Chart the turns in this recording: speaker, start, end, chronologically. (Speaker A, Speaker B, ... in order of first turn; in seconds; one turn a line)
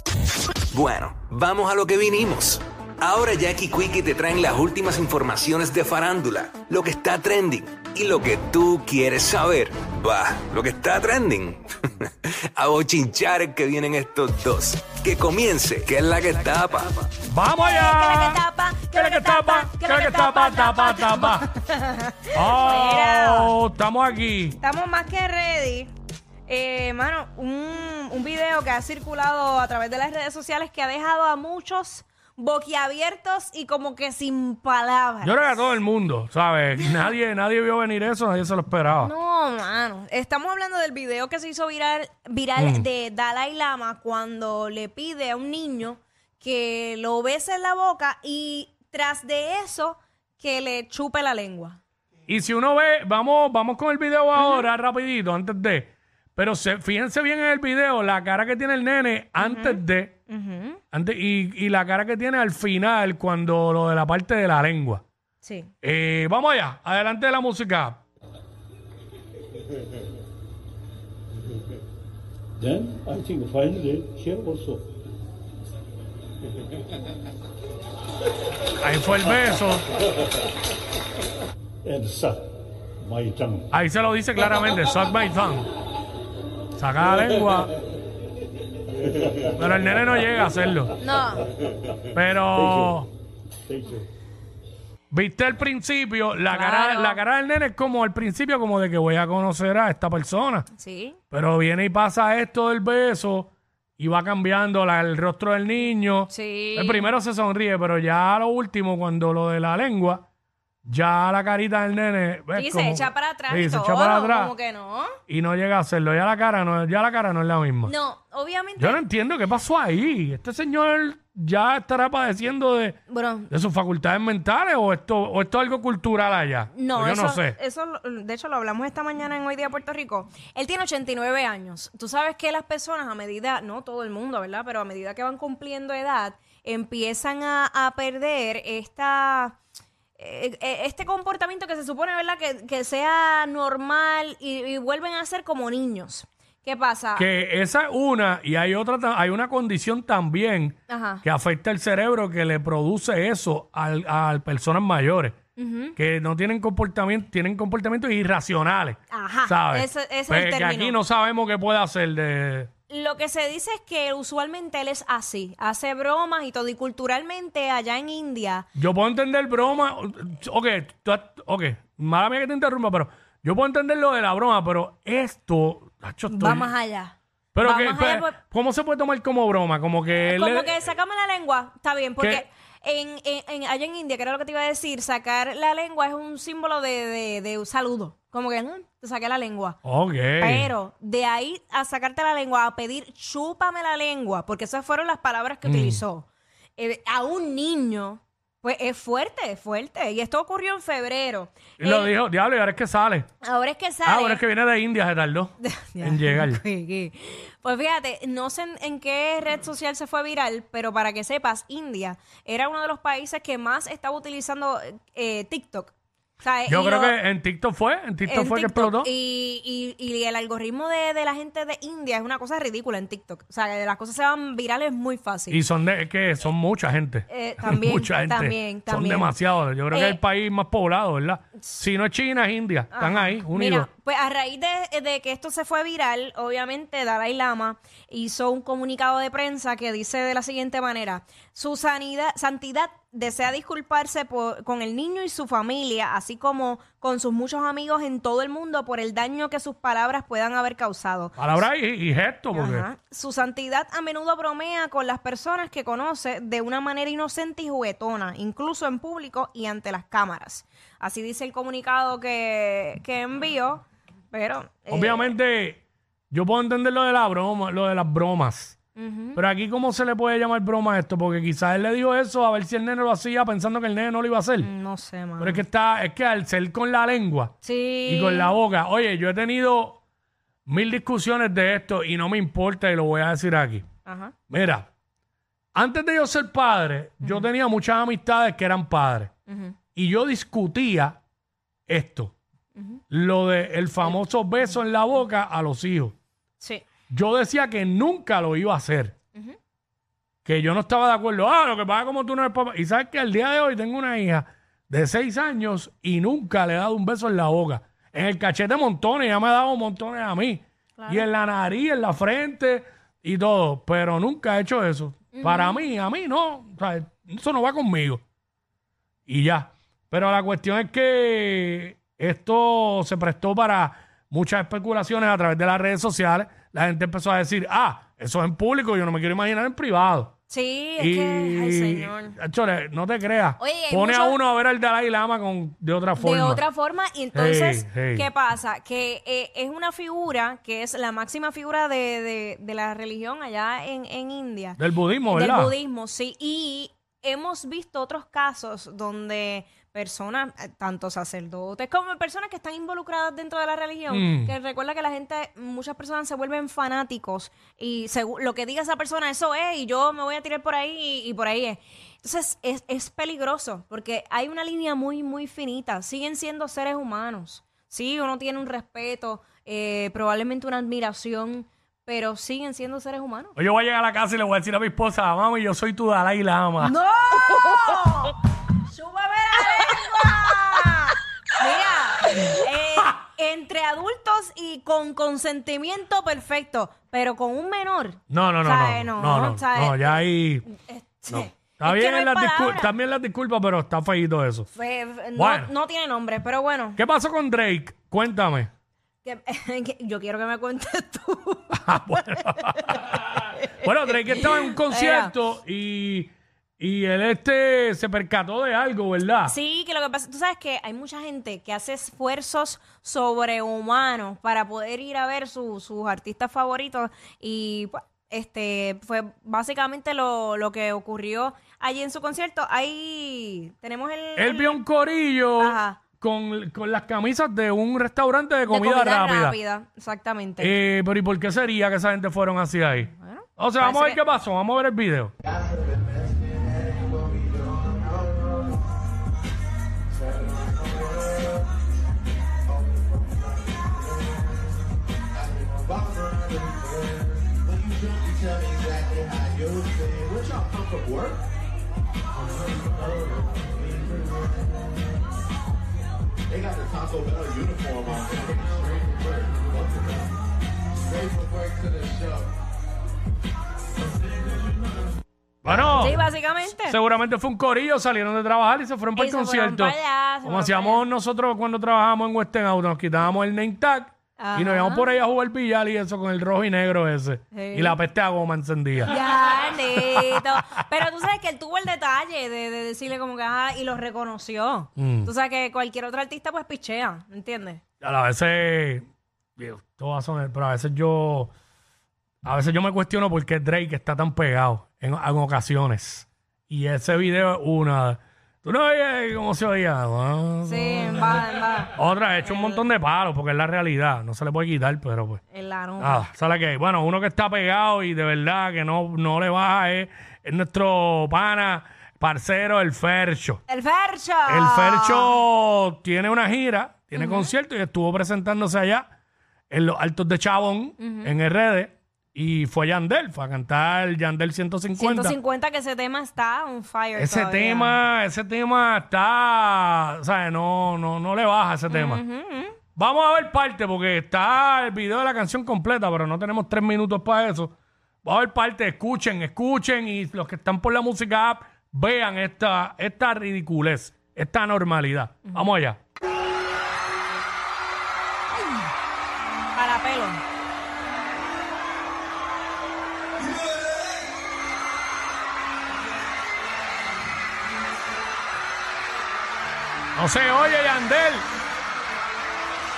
Speaker A: 0.7-17.1
Speaker B: 17.3-21.5
Speaker C: 17.6-23.5
Speaker B: 22.3-24.6
Speaker C: 24.6-25.9
Speaker C: 26.5-35.6
Speaker B: 35.2-39.1
Speaker C: 39.0-51.8
Speaker B: 42.6-42.9
Speaker B: 52.3-60.2
Speaker C: 54.4-54.7
Speaker C: 59.4-60.8
Speaker B: 60.9-65.0
Speaker C: 65.4-65.7
Speaker B: 65.8-68.0
Speaker D: 72.6-74.9
Speaker B: 78.8-79.9
Speaker D: 81.8-82.5
Speaker D: 83.0-83.7
Speaker B: 83.7-85.7
Speaker B: 86.8-87.7
Speaker B: 89.6-90.9
Speaker C: 91.0-91.5
Speaker B: 92.1-93.1
Speaker B: 95.1-100.7
Speaker C: 96.5-97.2
Speaker C: 100.7-101.2
Speaker B: 101.3-110.2
Speaker C: 106.3-107.1
Speaker B: 110.8-114.5
Speaker C: 112.5-115.2
Speaker B: 115.3-117.9
Speaker C: 117.8-119.0
Speaker B: 118.8-123.0
Speaker C: 123.1-123.5
Speaker B: 123.5-127.6
Speaker C: 126.7-139.6
Speaker C: 140.2-147.3
Speaker B: 147.2-155.3
Speaker C: 150.9-151.2
Speaker C: 155.6-156.0
Speaker B: 156.0-162.7
Speaker C: 159.1-161.0
Speaker C: 162.9-168.7
Speaker B: 168.8-176.7
Speaker C: 176.3-178.3
Speaker B: 177.5-180.8
Speaker C: 180.2-189.8
Speaker B: 182.2-182.4
Speaker B: 189.8-190.7
Speaker C: 190.4-202.1
Speaker B: 195.7-196.0
Speaker B: 201.8-203.3
Speaker C: 203.4-204.4
Speaker B: 204.1-206.6
Speaker C: 205.6-217.2
Speaker B: 216.7-219.1
Speaker C: 218.2-225.6
Speaker B: 225.5-233.9
Speaker C: 227.3-229.3
Speaker C: 229.9-230.2
Speaker C: 232.9-251.7
Speaker B: 251.4-252.9
Speaker C: 252.5-265.3
Speaker B: 264.9-268.8
Speaker C: 269.0-269.4
Speaker B: 269.4-274.7
Speaker C: 274.6-275.6
Speaker B: 275.4-277.5
Speaker C: 277.6-278.5
Speaker B: 278.1-280.0
Speaker B: 280.7-283.9
Speaker C: 284.1-284.3
Speaker B: 284.5-284.9
Speaker B: 285.8-289.3
Speaker C: 287.2-287.5
Speaker C: 289.5-289.8
Speaker B: 289.9-291.2
Speaker B: 291.9-292.3
Speaker C: 292.8-293.0
Speaker B: 293.1-296.1
Speaker C: 296.6-296.9
Speaker B: 297.1-299.1
Speaker B: 300.4-318.2
Speaker C: 311.0-311.3
Speaker C: 315.3-315.8
Speaker B: 319.3-330.3
Speaker C: 330.5-332.4
Speaker B: 331.0-336.6
Speaker C: 333.6-334.4
Speaker C: 336.2-373.5
Speaker B: 337.3-338.3
Speaker B: 344.8-345.7
Speaker B: 354.1-354.5
Speaker B: 373.6-376.9
Speaker C: 376.8-392.9
Speaker B: 388.3-390.7
Speaker B: 391.3-394.7
Speaker C: 394.7-397.0
Speaker B: 395.4-395.7
Speaker B: 397.0-398.7
Speaker C: 399.2-401.8
Speaker B: 401.7-409.6
Speaker C: 402.8-405.3
Speaker C: 409.5-424.8
Speaker B: 424.4-429.6
Speaker C: 425.6-426.0
Speaker C: 428.7-430.8
Speaker B: 430.6-435.3
Speaker C: 433.1-434.2
Speaker E: 435.6-438.6
Speaker E: 440.2-441.6
Speaker E: 442.7-444.3
Speaker E: 445.4-451.4
Speaker E: 453.8-454.6
Speaker E: 456.5-460.3
Speaker E: 461.1-462.4
Speaker B: 465.6-466.2
Speaker C: 465.8-467.0
Speaker B: 466.9-479.1
Speaker C: 469.2-471.0
Speaker C: 474.4-475.1
Speaker C: 477.5-478.0
Speaker C: 479.1-487.8
Speaker B: 480.0-480.8
Speaker B: 485.0-485.3
Speaker B: 488.0-489.1
Speaker B: 489.6-491.5
Speaker B: 492.4-505.4
Speaker C: 500.7-502.8
Speaker C: 505.5-506.3
Speaker B: 506.0-513.6
Speaker C: 513.7-515.4
Speaker B: 514.5-519.0
Speaker C: 517.1-517.5
Speaker B: 519.7-525.4
Speaker C: 521.0-521.3
Speaker C: 525.0-528.0
Speaker B: 527.2-532.2
Speaker C: 531.9-532.8
Speaker B: 533.0-537.7
Speaker B: 538.2-546.0
Speaker C: 549.7-550.4
Speaker B: 560.2-561.5